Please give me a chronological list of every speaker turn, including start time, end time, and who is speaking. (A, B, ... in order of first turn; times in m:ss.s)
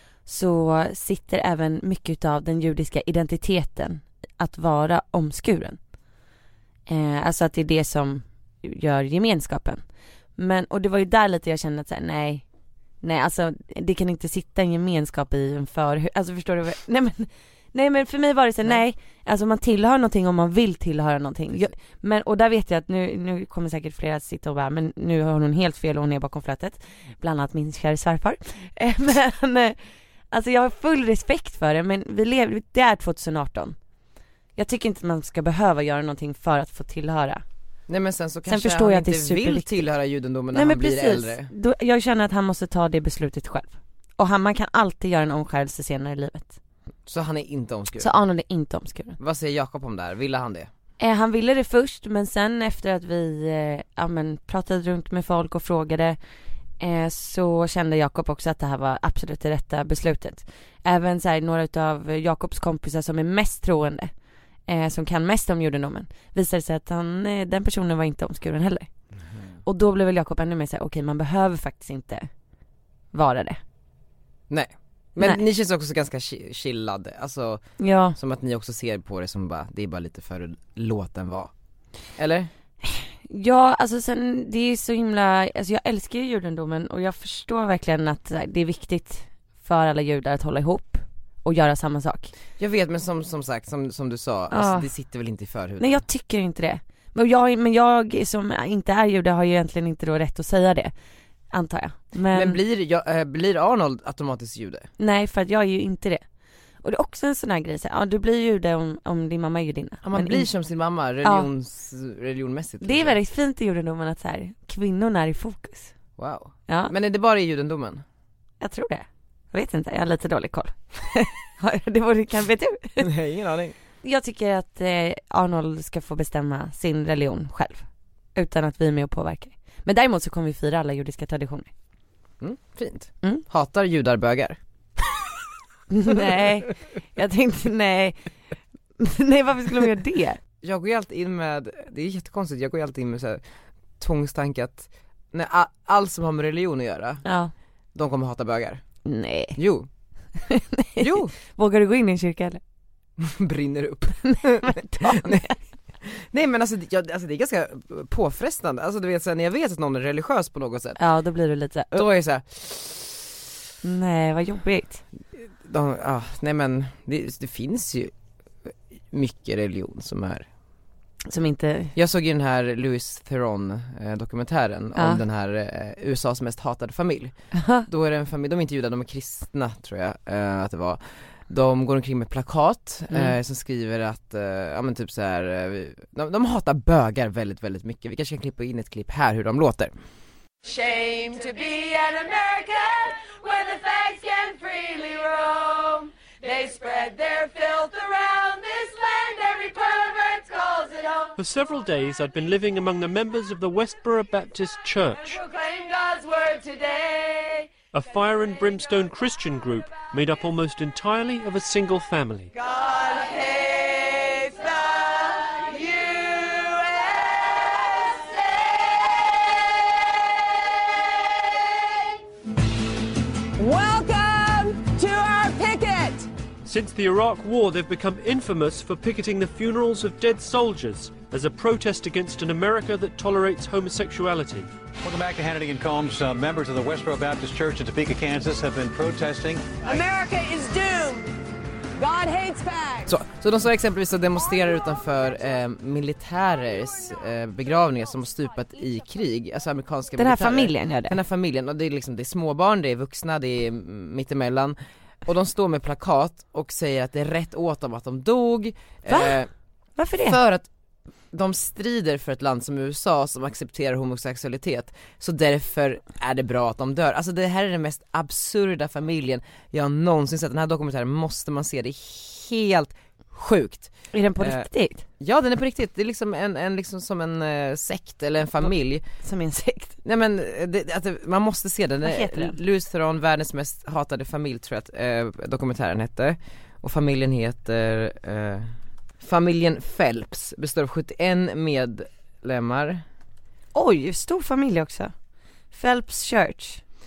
0:00.3-0:05.8 A
0:06.9-0:09.8 A
0:10.4-0:12.4 A
0:13.0-0:29.8 A
0:30.3-0:33.8 A
0:34.6-0:37.4 A
0:37.9-0:41.5 B
0:38.5-0:39.9 A
0:40.5-0:46.6 A
0:47.1-0:48.2 B
0:48.0-0:49.2 A
0:49.2-0:50.7 B
0:51.0-0:56.2 A
0:56.8-1:04.1 A
1:04.7-1:08.9 A
1:09.6-1:12.3 A
1:13.1-1:13.6 A
1:14.5-1:17.6 B
1:17.8-1:18.2 A
1:18.2-1:21.5 B
1:22.2-1:22.5 B
1:22.8-1:32.3 A
1:32.6-1:36.0 B
1:34.5-1:34.9 A
1:35.8-1:40.9 A
1:41.5-1:42.6 A
1:42.3-1:44.9 B
1:45.0-1:46.2 A
1:46.8-1:50.5 A
1:50.0-1:53.2 B
1:51.2-1:51.5 A
1:52.8-1:55.9 A
1:56.2-1:58.0 B
1:56.7-1:56.9 A
1:58.6-2:03.1 A
2:03.0-2:03.8 B
2:04.0-2:11.7 A
2:12.4-2:14.6 B
2:15.9-2:18.2 A
2:19.0-2:20.4 A
2:20.6-2:23.4 B
2:24.0-2:27.2 B
2:27.2-2:27.5 A
2:28.0-2:28.8 B
2:29.0-2:29.6 A
2:29.6-2:29.9 B
2:30.5-2:32.6 A
2:31.0-2:31.3 B
2:33.2-2:35.5 B
2:34.2-2:35.6 A
2:36.0-2:41.0 B
2:41.0-2:42.1 A
2:41.9-2:43.2 B
2:43.8-2:45.0 A
2:45.6-2:48.1 B
2:49.1-2:50.5 B
2:51.3-2:51.9 A
2:52.0-2:57.3 B
2:55.0-2:55.2 A
2:57.5-2:57.9 A
2:57.9-3:09.9 B
3:10.7-3:15.5 C
3:16.5-3:21.0 C
3:21.4-3:25.4 D
3:25.9-3:26.8 C
3:27.9-3:32.5 D
3:33.2-3:33.6 C
3:34.2-3:34.6 C
3:35.7-3:36.8 C
3:43.6-3:46.2 C
3:46.6-3:54.7 D
3:55.0-3:59.8 E
4:00.0-4:01.1 C
4:02.0-4:03.0 C
4:03.0-4:19.5 B
4:10.2-4:11.2 A
4:19.1-4:19.4 A
4:20.0-4:20.4 A
4:20.2-4:20.7 B
4:21.3-4:34.7 B
4:34.1-4:35.0 A
4:35.2-4:39.0 B
4:39.2-4:40.0 A
4:40.0-4:48.7 B
4:42.0-4:42.6 A
4:49.2-4:53.0 B
4:53.7-4:55.1 A
4:55.7-4:56.8 A